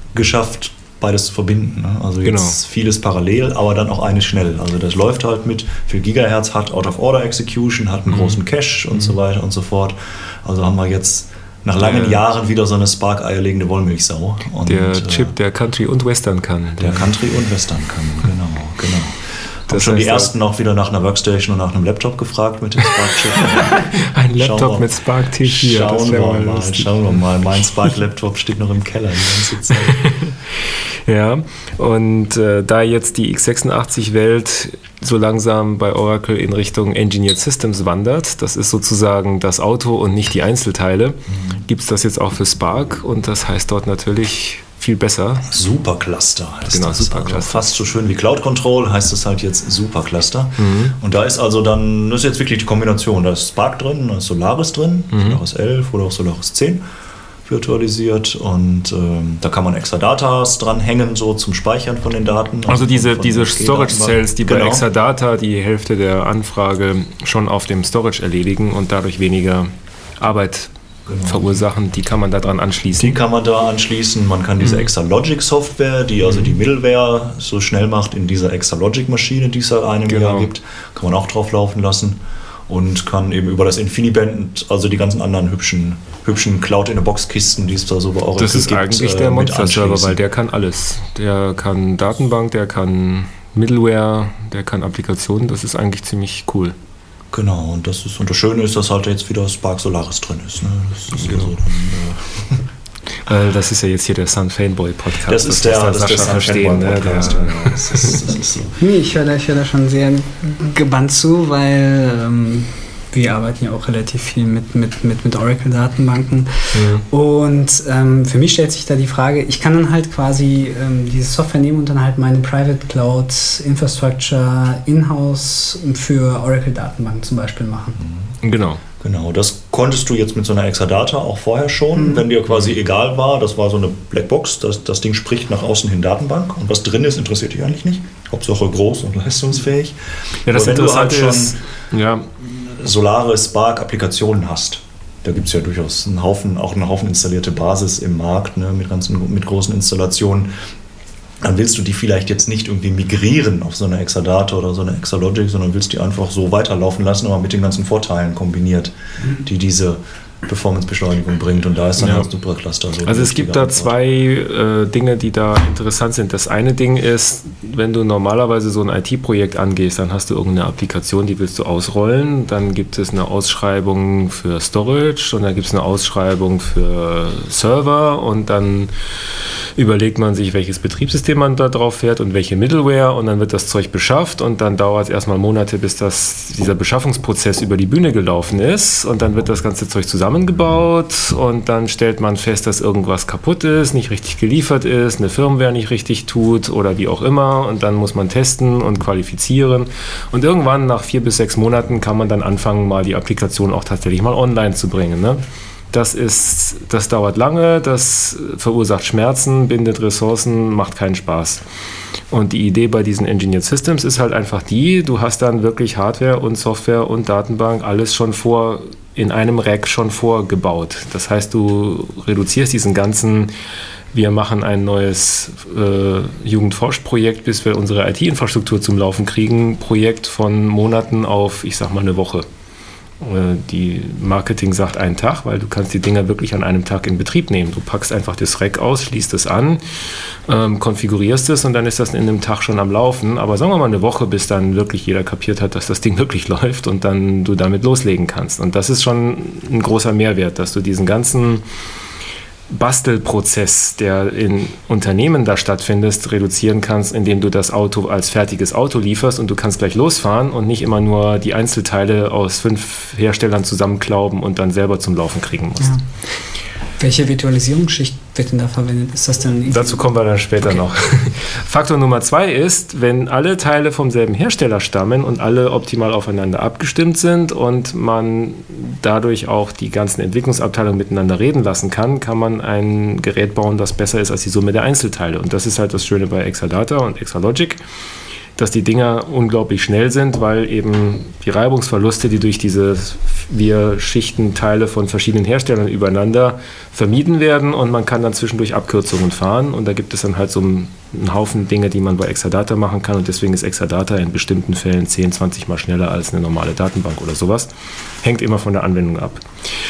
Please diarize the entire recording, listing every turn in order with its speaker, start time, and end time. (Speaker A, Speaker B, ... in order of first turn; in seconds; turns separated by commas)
Speaker A: 0.1-15.3, Speaker B: 2.2-2.6, Speaker B: 8.1-9.2, Speaker B: 11.8-12.2, Speaker B: 14.7-17.1, Speaker A: 16.8-30.1, Speaker B: 19.7-20.3, Speaker B: 23.1-26.9, Speaker B: 29.7-45.5, Speaker A: 41.3-41.6, Speaker A: 45.5-56.8, Speaker B: 46.7-47.7, Speaker B: 50.6-51.0, Speaker B: 55.1-55.4, Speaker A: 57.5-64.8, Speaker B: 62.7-70.7, Speaker A: 71.1-71.6, Speaker B: 71.2-73.2, Speaker A: 73.0-90.2, Speaker B: 74.6-74.9, Speaker B: 76.2-76.5, Speaker B: 80.0-80.5, Speaker B: 88.4-96.7, Speaker A: 97.3-102.6, Speaker B: 101.1-101.5, Speaker B: 103.2-108.2, Speaker A: 105.2-108.7, Speaker C: 108.8-128.0, Speaker B: 116.7-117.0, Speaker A: 128.0-128.3, Speaker B: 128.4-128.8, Speaker A: 129.0-139.9, Speaker C: 132.0-132.2, Speaker B: 140.4-142.3, Speaker A: 140.5-141.6, Speaker A: 142.4-150.5, Speaker A: 151.4-163.9, Speaker B: 162.0-162.3, Speaker B: 163.0-211.6, Speaker B: 212.3-223.5, Speaker B: 224.1-232.5, Speaker B: 233.2-251.6, Speaker B: 252.7-266.0, Speaker C: 265.8-266.4, Speaker C: 267.0-270.1, Speaker B: 269.7-287.8, Speaker B: 288.6-307.7, Speaker B: 308.2-309.4